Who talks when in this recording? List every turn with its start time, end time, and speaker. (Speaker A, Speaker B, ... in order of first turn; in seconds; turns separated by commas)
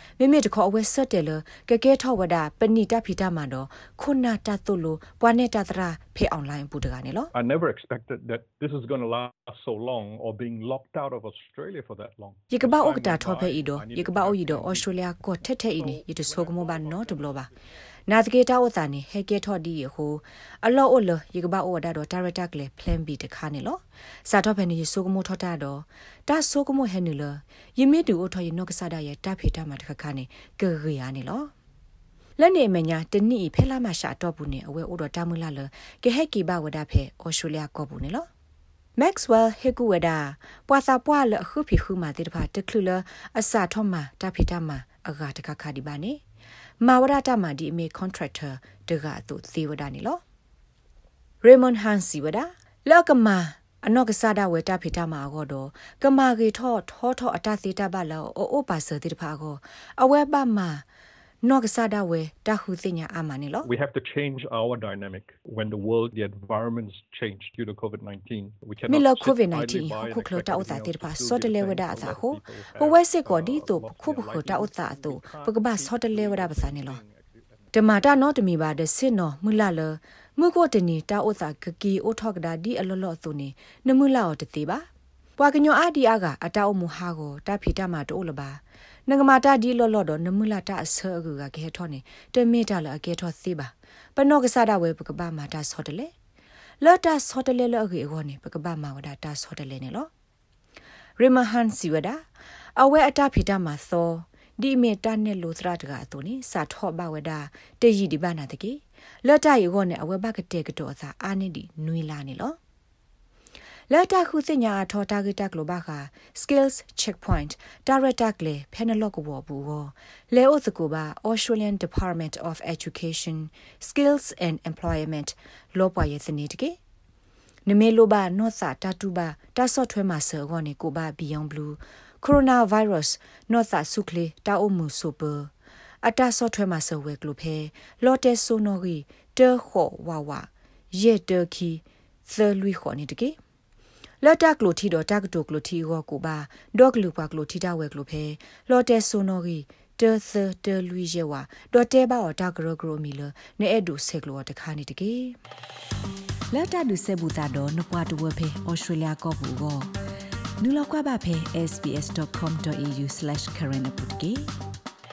Speaker A: 0.2-7.3, Speaker B: 7.3-14.9, Speaker A: 12.5-17.5, Speaker B: 15.7-17.6, Speaker A: 18.1-31.5, Speaker A: 32.4-38.3, Speaker A: 39.0-46.2, Speaker A: 46.8-50.2, Speaker A: 51.4-60.8, Speaker A: 61.4-63.7, Speaker B: 63.6-78.3, Speaker A: 68.9-77.0, Speaker A: 77.7-84.9, Speaker A: 85.4-96.1, Speaker A: 96.8-100.1, Speaker A: 101.2-102.2, Speaker A: 102.8-112.6, Speaker A: 113.9-126.8, Speaker A: 127.7-135.5, Speaker A: 136.0-143.4, Speaker A: 144.2-155.4, Speaker A: 156.5-159.9, Speaker A: 160.6-164.5